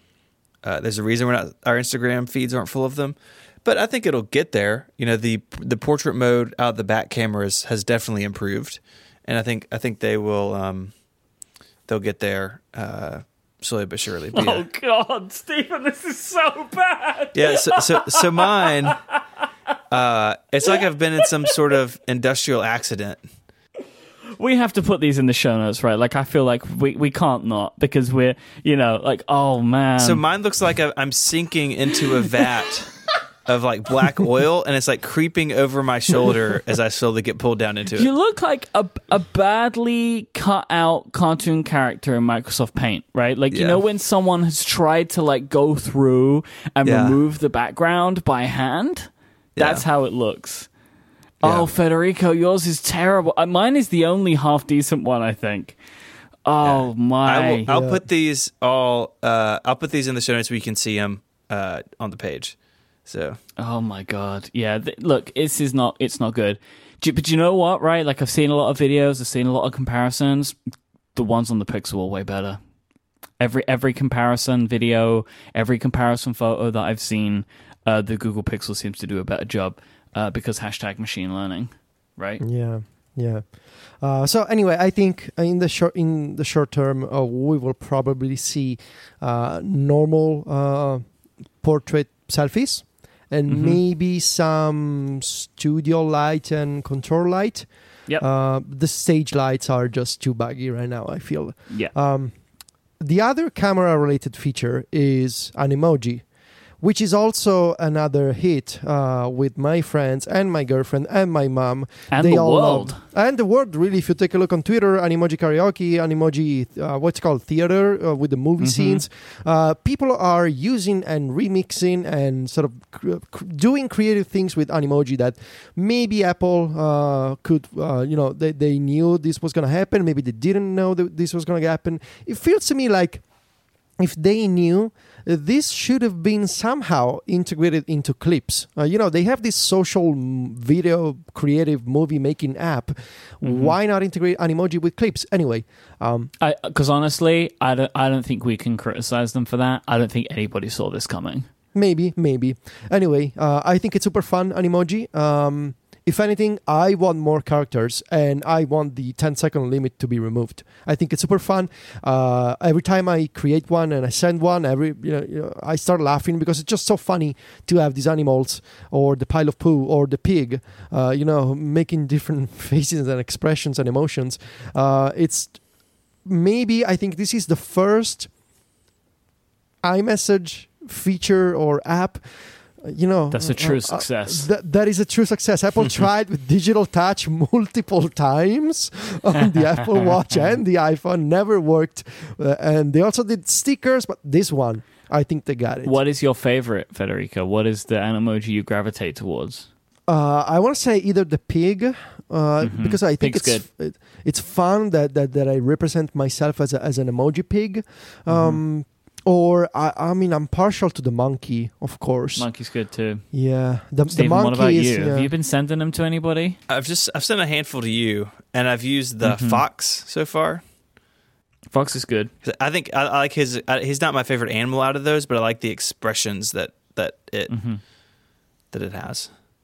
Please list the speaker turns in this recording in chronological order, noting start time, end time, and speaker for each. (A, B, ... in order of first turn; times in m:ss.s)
0:00.6-0:10.9 A
0:11.9-0:14.6 A
0:14.3-0:19.2 B
0:17.3-0:19.0 A
0:19.9-0:23.2 A
0:20.7-0:21.5 B
0:24.4-0:30.2 B
0:30.0-0:38.1 A
0:38.0-0:50.7 B
0:43.5-0:43.8 A
0:46.8-0:47.2 A
0:49.6-0:49.8 A
0:51.4-0:51.7 A
0:51.4-0:55.8 B
0:56.4-0:57.7 B
0:56.6-1:03.4 A
0:57.7-0:58.0 C
1:03.6-1:10.6 B
1:11.1-1:12.6 B
1:13.4-1:22.4 B
1:22.4-1:42.4 C
1:33.5-1:33.8 B
1:43.0-1:46.3 C
1:46.8-2:13.2 C
1:52.1-1:53.0 B
1:58.6-1:59.0 B
2:14.0-2:26.3 C
2:23.4-2:23.8 B
2:26.4-2:31.4 B
2:31.7-2:55.6 C
2:56.2-2:58.3 C
2:59.8-3:15.9 C
3:03.3-3:04.5 B
3:15.8-3:19.7 B
3:20.1-3:32.5 C
3:22.6-3:23.6 B
3:28.3-3:28.6 B
3:32.4-3:33.3 B
3:33.3-3:35.3 C
3:34.1-3:36.6 B
3:36.7-3:40.6 A
3:39.2-3:39.6 B
3:41.7-3:42.3 B
3:42.4-3:47.5 A
3:47.5-3:47.8 B
3:48.7-3:49.3 A